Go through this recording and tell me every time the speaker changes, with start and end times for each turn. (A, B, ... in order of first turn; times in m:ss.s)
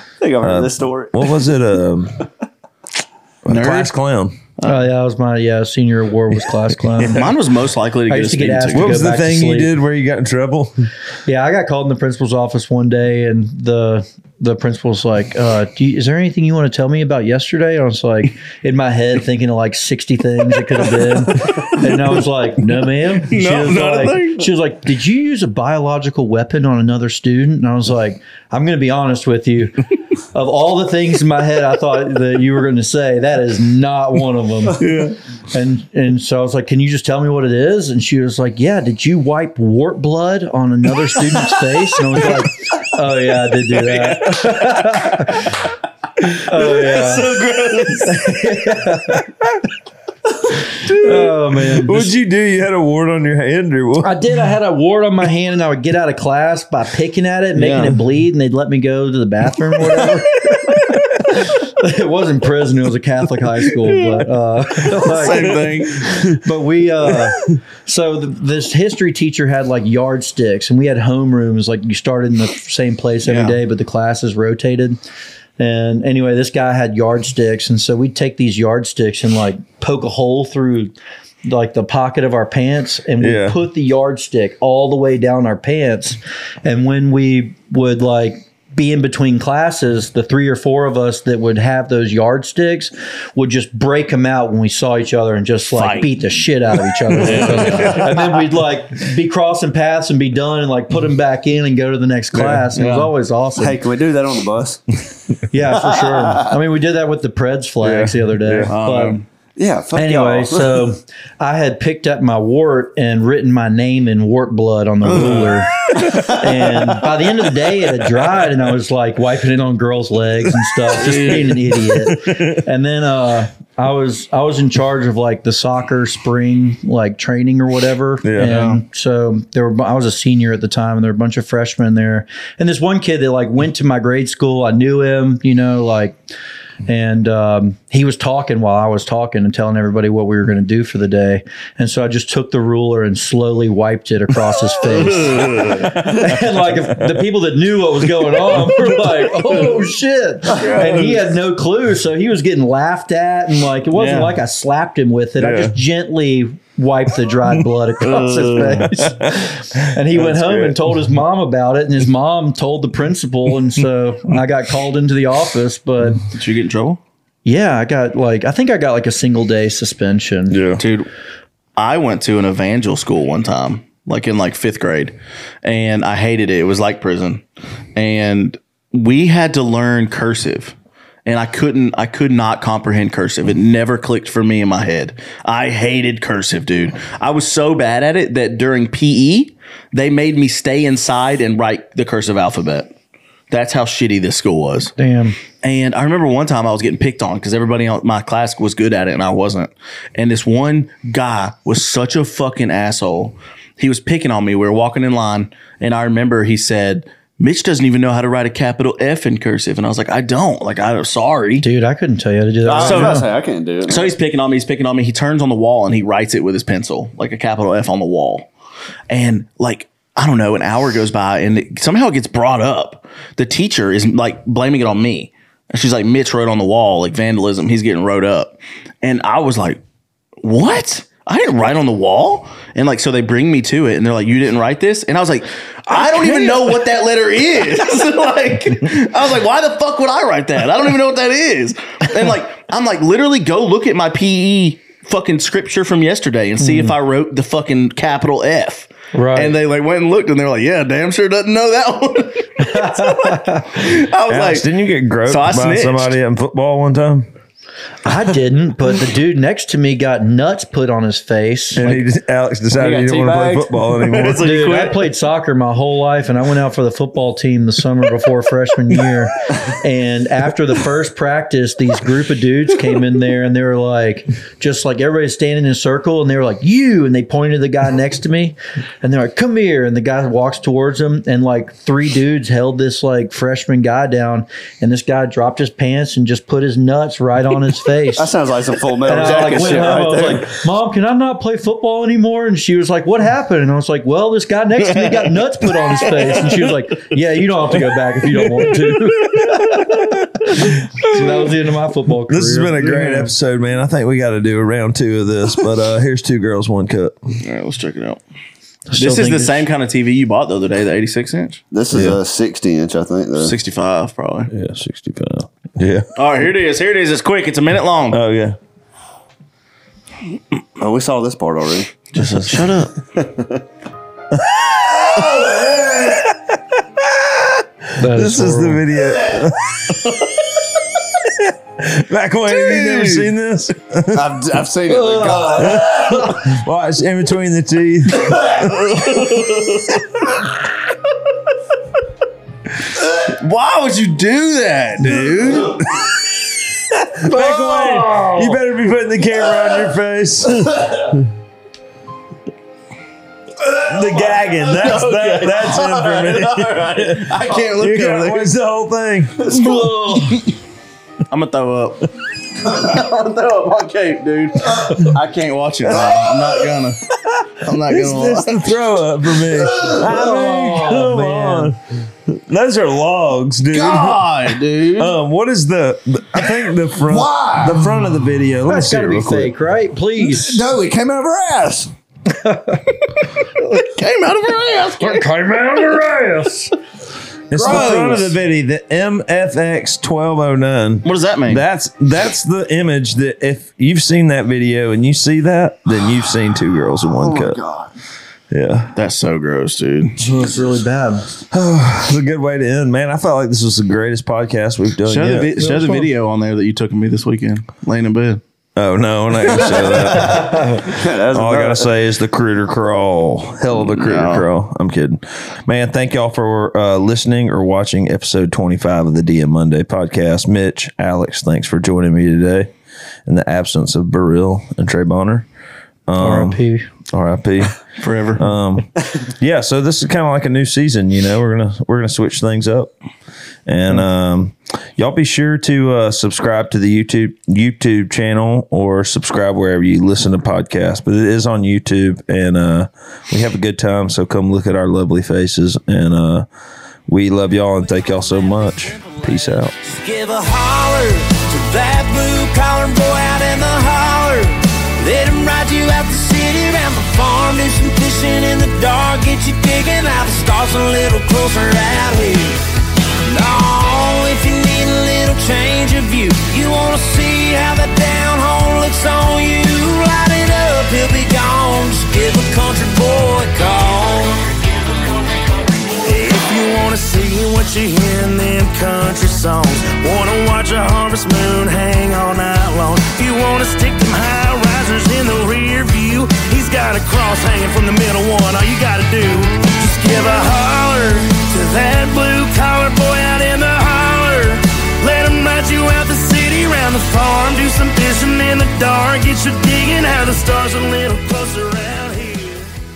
0:00.2-0:01.3 A
0:00.4-0:02.2 B
0:03.4-0:04.4 B
0:03.5-0:03.9 C
0:04.6-0:04.8 C
0:04.6-0:07.3 D
0:06.9-0:07.3 B
0:07.1-0:09.0 C
0:08.1-0:09.7 D
0:08.7-0:10.9 B
0:11.2-0:34.9 D
0:21.3-0:22.0 C
0:23.2-0:24.5 C
0:34.8-0:35.2 C
0:35.5-0:45.6 D
0:43.7-0:45.5 C
0:46.3-0:47.3 D
0:46.4-0:48.3 C
0:48.0-0:49.3 D
0:50.8-0:51.3 C
0:50.8-0:52.1 D
0:51.7-0:54.2 B
0:54.0-1:15.0 D
0:57.5-0:58.0 C
1:03.9-1:04.2 C
1:04.9-1:06.1 C
1:06.0-1:06.4 B
1:13.2-1:13.6 C
1:15.6-1:20.9 D
1:21.4-1:43.9 D
1:23.2-1:23.6 B
1:35.7-1:36.1 C
1:37.1-1:38.3 C
1:42.7-1:43.1 C
1:43.6-1:44.8 A
1:45.5-1:49.2 D
1:45.6-1:46.5 A
1:47.8-1:48.7 B
1:48.7-1:49.2 C
1:49.6-1:50.9 A
1:50.0-2:16.2 D
1:55.0-1:56.4 C
2:00.9-2:01.5 C
2:01.7-2:02.6 B
2:08.2-2:08.7 B
2:08.5-2:08.8 C
2:16.8-2:46.2 D
2:24.9-2:26.3 C
2:26.2-2:27.2 B
2:28.2-2:29.2 B
2:30.5-2:31.0 C
2:30.6-2:30.9 B
2:33.9-2:34.4 C
2:35.4-2:35.8 B
2:38.0-2:40.8 B
2:46.3-2:47.0 C
2:47.4-2:50.6 D
2:50.5-2:50.8 B
2:50.8-2:51.1 C
2:51.8-2:57.4 C
2:58.0-3:12.9 C
3:13.5-3:14.9 C
3:15.0-3:15.4 D
3:15.6-3:31.6 C
3:31.6-3:33.3 D
3:32.6-3:33.2 C
3:32.7-3:34.2 A
3:33.8-3:38.5 C
3:39.1-3:49.8 C
3:50.4-4:14.7 C
4:06.6-4:06.9 D
4:09.1-4:09.6 D
4:12.6-4:13.8 D
4:14.3-4:17.3 B
4:15.2-4:16.1 C
4:18.0-4:21.8 D
4:21.8-4:24.5 B
4:22.8-4:23.8 A
4:24.1-4:25.1 C
4:24.4-4:48.3 D
4:48.2-4:50.5 A
4:49.0-5:03.3 D
4:54.9-4:55.3 C
4:55.9-4:56.6 C
5:02.3-5:07.3 B
5:07.4-5:08.2 C
5:08.9-5:09.6 D
5:09.0-5:11.6 C
5:11.7-5:13.5 A
5:11.9-5:12.2 B
5:13.4-5:14.5 C
5:14.5-5:16.1 B
5:16.2-5:18.2 C
5:18.1-5:18.6 B
5:20.8-5:21.9 A
5:22.1-5:23.0 C
5:23.2-5:23.5 A
5:25.1-5:26.1 A
5:25.2-5:25.5 B
5:26.3-5:30.4 B
5:28.0-5:28.8 D
5:31.2-5:34.4 B
5:32.5-5:33.3 C
5:34.1-5:36.2 A
5:34.9-5:36.4 D
5:35.6-5:39.6 B
5:38.7-5:39.9 C
5:43.1-5:45.8 C
5:45.2-5:46.1 B
5:46.9-5:51.3 B
5:47.5-5:48.6 D
5:53.8-5:59.9 B
5:53.8-5:58.5 C
5:59.5-6:00.5 C
5:59.6-6:00.3 D
6:01.3-6:08.7 C
6:07.7-6:19.5 B
6:10.0-6:11.7 D
6:13.7-6:15.2 C
6:17.0-6:17.8 A
6:18.7-6:20.7 D
6:20.2-6:21.9 A
6:22.3-6:22.8 D
6:23.6-6:25.3 C
6:25.0-6:26.7 D
6:27.5-6:37.6 B
6:27.6-6:28.3 D
6:27.6-6:28.2 A
6:31.0-6:31.6 C
6:37.0-6:37.9 A
6:38.5-6:38.9 B
6:38.9-6:40.2 C
6:40.2-6:41.2 D
6:41.5-6:45.6 B
6:45.0-6:48.4 C
6:45.6-6:46.1 D
6:48.8-7:02.7 B
6:49.6-6:51.9 A
6:50.5-6:50.8 D
6:53.7-6:54.5 C
7:03.2-7:05.5 B
7:06.1-7:07.8 B
7:06.2-7:06.9 D
7:08.0-7:08.5 C
7:08.4-7:12.9 B
7:13.6-7:26.5 B
7:27.1-7:29.7 B
7:27.7-7:42.6 E
7:43.2-8:22.7 E